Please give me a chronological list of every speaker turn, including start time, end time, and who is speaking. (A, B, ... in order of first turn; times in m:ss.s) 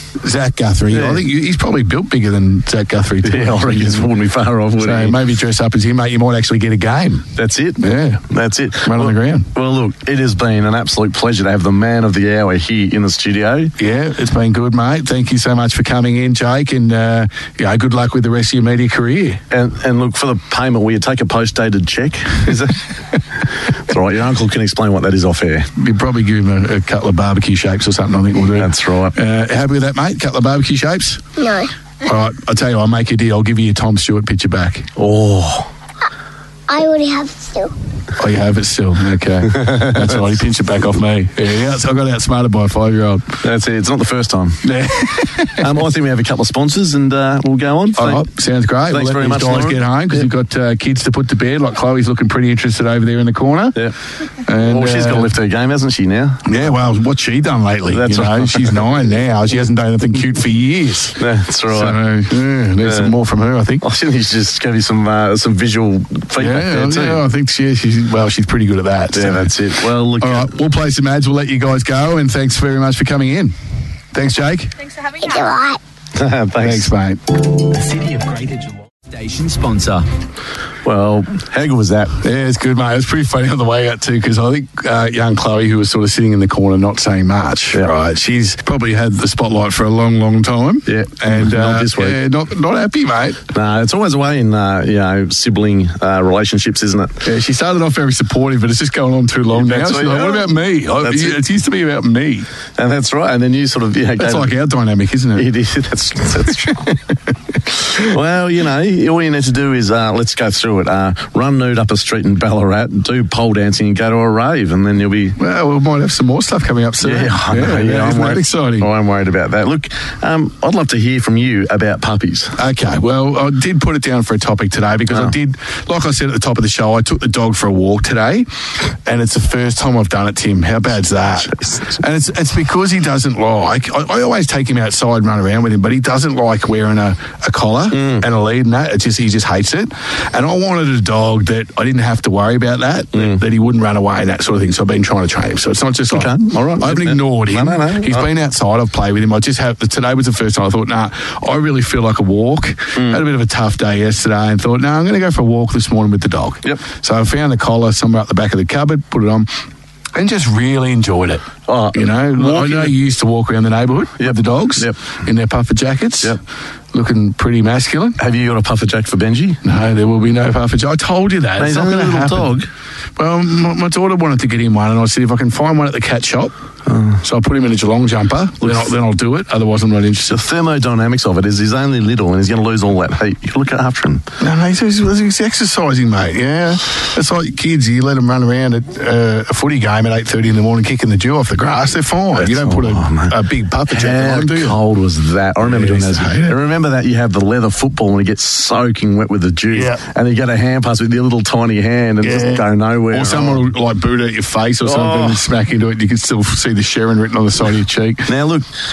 0:00.2-0:04.1 A
0:00.9-0:01.2 B
0:03.2-0:05.2 B
0:04.8-0:07.3 A
0:07.4-0:13.7 B
0:07.8-0:08.2 A
0:08.8-0:09.5 A
0:13.8-0:19.4 A
0:19.5-0:22.9 B
0:23.7-0:25.7 B
0:25.8-0:31.2 A
0:28.6-0:29.1 B
0:31.4-0:31.7 C
0:32.0-0:34.9 A
0:35.0-0:35.7 B
0:36.7-0:37.7 C
0:38.2-0:43.4 A
0:39.5-0:40.2 B
0:43.4-0:44.6 B
0:44.6-0:45.7 A
0:45.6-0:48.2 B
0:48.0-0:53.8 A
0:48.9-0:50.2 B
0:54.4-0:55.3 A
0:54.6-0:56.4 B
0:56.4-1:03.8 A
0:57.9-0:58.8 B
1:01.2-1:02.0 B
1:02.8-1:03.1 B
1:03.8-1:07.2 B
1:06.4-1:09.5 A
1:09.1-1:10.5 B
1:10.2-1:13.5 A
1:14.1-1:14.7 A
1:15.2-1:15.8 C
1:16.1-1:16.9 B
1:16.6-1:17.2 A
1:17.6-1:20.0 D
1:20.8-1:22.2 B
1:22.2-1:33.4 A
1:30.9-1:32.2 B
1:33.5-1:37.2 B
1:37.2-1:42.5 A
1:39.5-1:41.4 B
1:42.8-1:44.5 B
1:44.2-1:45.5 A
1:45.4-1:46.9 B
1:46.4-1:47.0 A
1:47.9-1:55.4 B
1:55.4-1:58.9 A
1:57.0-2:02.6 B
2:02.6-2:39.5 A
2:17.9-2:18.2 B
2:23.1-2:23.4 B
2:26.1-2:28.3 B
2:33.0-2:33.2 B
2:40.1-2:46.4 A
2:41.7-2:42.9 B
2:44.2-2:45.0 B
2:46.9-2:48.2 A
2:48.2-2:49.6 B
2:49.6-2:52.5 A
2:51.6-2:52.7 B
2:53.2-2:56.5 A
2:56.9-2:57.2 B
2:57.2-3:00.4 A
3:00.3-3:04.2 B
3:04.4-3:14.8 A
3:12.3-3:13.4 B
3:13.9-3:23.6 B
3:15.6-3:16.6 A
3:19.7-3:20.0 A
3:22.2-3:28.3 A
3:24.8-3:25.4 B
3:28.3-3:28.7 B